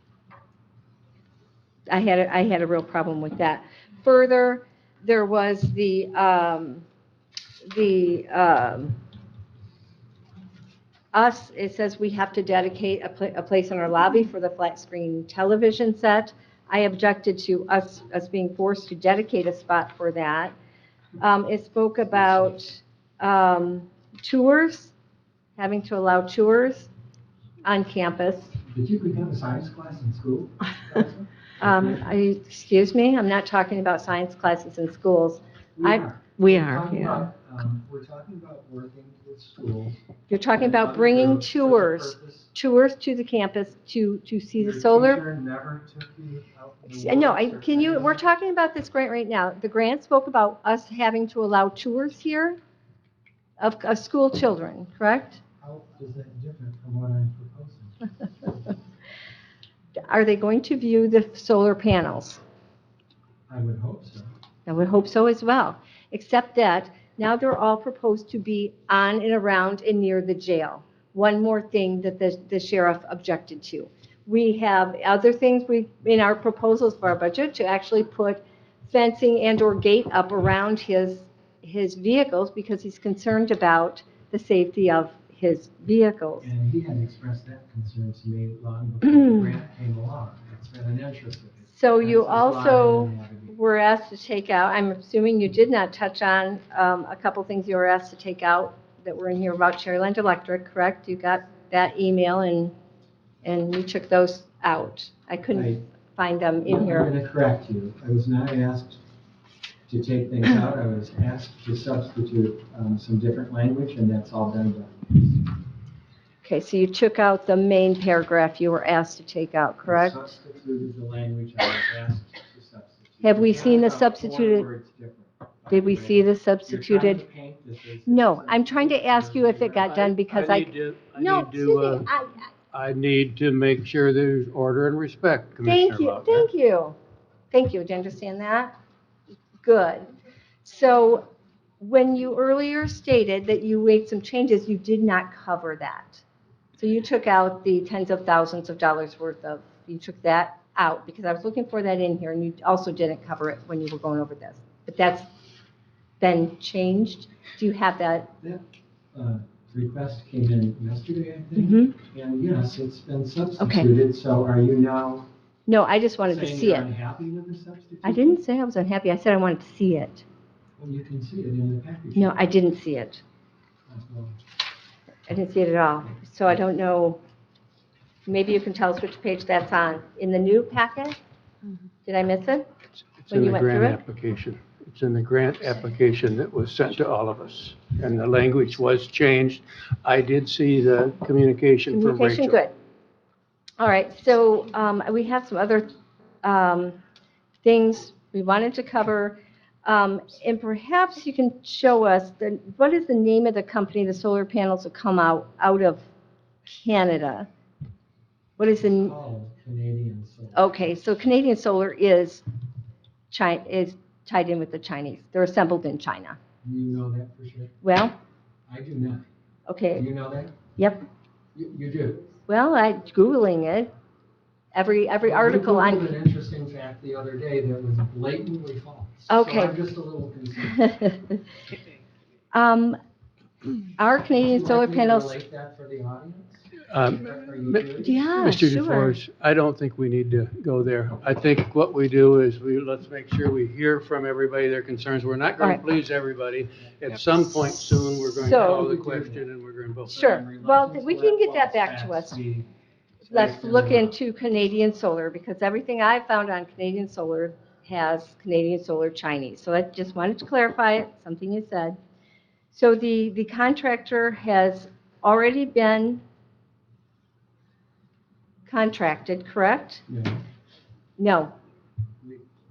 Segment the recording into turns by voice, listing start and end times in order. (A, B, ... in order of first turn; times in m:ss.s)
0:01.9-0:06.8 A
0:07.7-0:09.0 A
0:11.1-0:20.6 A
0:21.2-0:24.9 A
0:25.6-0:26.9 A
0:27.6-0:28.6 A
0:28.6-0:32.1 B
0:31.6-0:37.3 A
0:35.8-0:40.0 B
0:40.3-0:45.2 A
0:40.6-0:42.5 B
0:44.6-0:48.2 B
0:46.9-0:52.6 A
0:53.6-0:55.4 A
0:55.6-0:58.0 B
1:00.0-1:02.4 A
1:03.5-1:04.3 B
1:04.7-1:26.5 A
1:26.4-1:33.5 B
1:31.7-1:42.7 A
1:43.4-1:47.1 A
1:45.5-1:45.8 B
1:46.7-1:49.0 B
1:49.9-1:55.4 B
1:56.4-2:00.2 A
1:59.8-2:09.9 B
2:03.2-2:04.7 A
2:05.7-2:07.2 A
2:08.1-2:12.5 A
2:09.8-2:12.1 C
2:12.7-2:16.5 C
2:15.6-2:17.0 A
2:17.5-2:18.7 A
2:19.6-2:20.1 A
2:20.6-2:21.3 A
2:21.8-2:26.2 A
2:26.8-2:35.3 A
2:36.2-2:38.3 A
2:38.4-2:45.3 B
2:41.6-2:41.9 A
2:43.6-2:43.9 A
2:45.7-2:46.9 A
2:46.3-2:48.4 B
2:48.0-2:50.2 A
2:50.8-2:52.3 B
2:52.2-2:53.2 A
2:53.9-2:54.4 B
2:55.3-2:57.2 A
2:58.3-3:01.2 A
3:02.0-3:02.7 A
3:03.2-3:12.6 C
3:03.3-3:04.0 A
3:11.9-3:12.7 A
3:13.8-3:17.0 A
3:17.6-3:26.0 A
3:26.7-3:27.5 A
3:28.6-3:29.1 A
3:28.9-3:30.7 B
3:30.6-3:32.4 A
3:33.3-3:36.4 A
3:36.6-3:37.8 B
3:37.8-3:38.2 A
3:38.7-3:39.2 B
3:39.7-3:40.0 A
3:39.9-3:40.6 B
3:40.8-3:41.0 A
3:41.6-3:42.2 B
3:42.5-3:43.9 A
3:44.7-3:46.2 A
3:45.2-3:51.0 B
3:49.3-3:49.8 A
3:50.8-3:51.2 A
3:52.5-3:53.0 A
3:54.0-3:55.4 A
3:54.4-3:56.6 B
3:56.9-4:10.1 C
3:57.2-3:58.2 B
3:58.0-3:59.2 A
4:08.4-4:09.5 B
4:08.4-4:08.8 A
4:10.1-4:12.7 B
4:10.1-4:12.4 A
4:13.2-4:14.2 B
4:13.3-4:22.0 A
4:22.7-4:26.2 A
4:28.7-4:30.0 A
4:30.1-4:30.4 B
4:31.2-4:31.5 A
4:32.2-4:32.5 B